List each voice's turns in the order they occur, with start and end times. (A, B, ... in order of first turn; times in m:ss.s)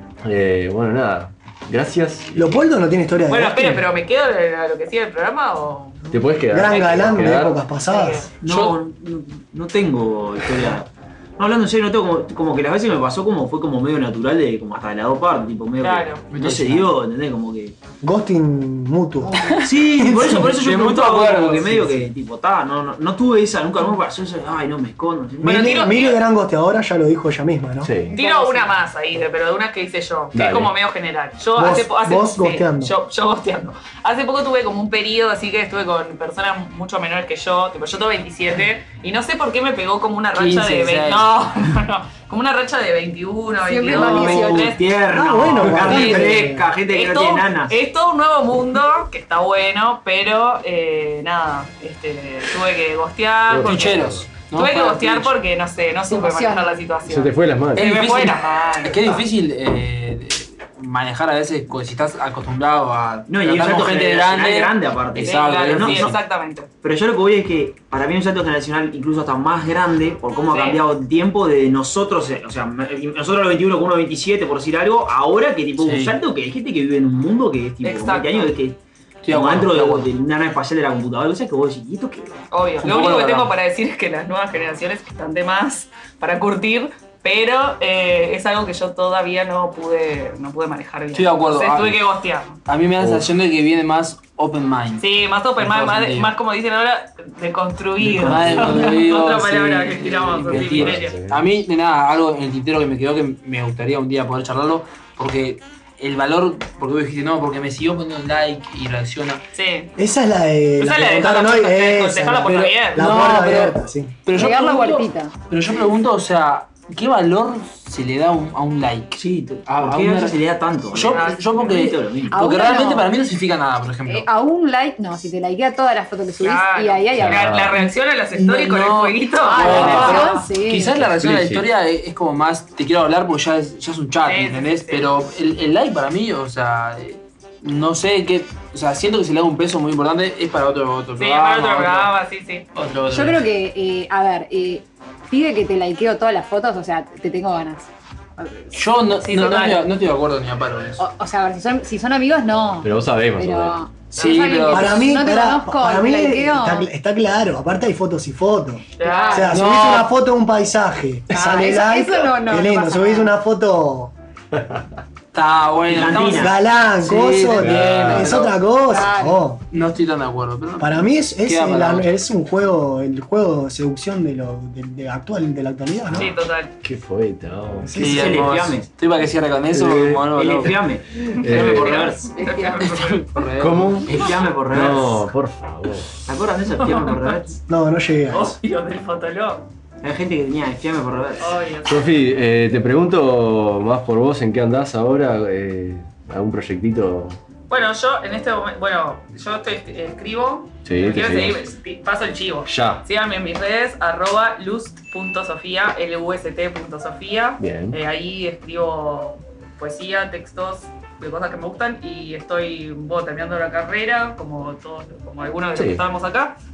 0:00.2-0:02.6 A
0:02.3-0:03.9 B
0:03.3-0:06.0 C
0:06.1-0:07.6 A
0:06.5-0:08.3 B
0:06.7-0:07.2 C
0:07.8-0:08.3 C
0:08.4-0:17.8 D
0:08.5-0:08.8 E
0:15.8-0:16.2 C
0:16.3-0:16.9 E
0:18.0-0:20.5 B
0:19.6-0:25.8 D
0:20.5-0:22.1 E
0:25.4-0:28.0 B
0:25.4-0:26.2 C
0:27.8-0:28.2 A
0:28.1-0:44.8 C
0:28.1-0:28.5 F
0:30.3-0:30.7 A
0:31.6-0:32.9 B
0:40.4-0:41.3 E
0:43.6-0:44.8 F
0:43.9-0:47.8 D
0:45.1-0:46.7 B
0:45.8-0:59.0 C
0:53.5-0:54.3 A
0:53.6-0:55.4 E
0:56.1-0:56.8 F
0:57.1-0:58.0 A
0:57.8-1:06.2 E
1:03.3-1:06.2 D
1:05.2-1:06.7 C
1:06.8-1:22.4 D
1:10.5-1:10.8 C
1:15.8-1:16.2 E
1:17.8-1:18.5 C
1:19.2-1:20.1 E
1:22.5-1:32.6 C
1:22.8-1:23.6 E
1:31.1-1:32.0 E
1:32.7-1:36.4 E
1:33.0-1:33.3 A
1:35.0-1:41.2 C
1:38.0-1:38.8 D
1:38.2-1:49.4 E
1:40.5-1:41.4 A
1:49.5-1:49.9 C
1:50.0-1:54.2 B
1:50.8-1:53.1 C
1:53.0-2:04.3 E
1:54.3-1:55.3 F
1:59.1-2:02.4 D
2:01.1-2:01.8 C
2:02.3-2:03.1 F
2:04.1-2:07.8 F
2:06.4-2:10.5 C
2:07.2-2:07.7 A
2:08.3-2:22.1 E
2:09.5-2:11.0 F
2:11.0-2:11.7 A
2:14.3-2:15.1 C
2:21.2-2:22.7 C
2:22.8-2:23.5 E
2:23.1-2:28.8 F
2:28.7-2:31.0 E
2:29.2-2:29.8 C
2:31.0-2:36.9 F
2:32.8-2:33.8 A
2:34.1-2:34.7 C
2:34.1-2:35.1 E
2:34.7-2:44.1 B
2:39.0-2:39.5 C
2:39.0-2:39.6 F
2:39.5-2:40.1 E
2:41.3-2:43.3 F
2:44.5-2:44.8 A
2:45.3-2:48.7 E
2:45.9-2:46.6 D
2:46.0-2:46.5 C
2:46.4-2:49.6 B
2:47.5-2:48.4 A
2:48.8-2:49.4 F
2:49.7-2:52.1 E
2:50.8-2:56.3 B
2:56.2-2:56.7 C
2:56.8-2:58.0 A
2:57.8-2:58.5 B
2:58.0-3:00.9 E
2:58.0-2:58.9 D
2:59.7-3:00.7 A
3:00.3-3:02.3 D
3:01.3-3:02.0 A
3:01.5-3:02.2 E
3:01.6-3:03.5 C
3:02.8-3:04.2 E
3:03.6-3:06.2 A
3:04.1-3:05.3 D
3:06.3-3:07.6 D
3:06.8-3:07.1 C
3:07.7-3:08.6 B
3:08.3-3:09.7 C
3:10.0-3:11.6 D
3:11.4-3:12.1 C
3:11.9-3:17.4 A
3:17.7-3:36.6 C
3:20.8-3:21.6 A
3:22.7-3:23.0 A
3:27.6-3:28.0 A
3:35.8-3:36.0 A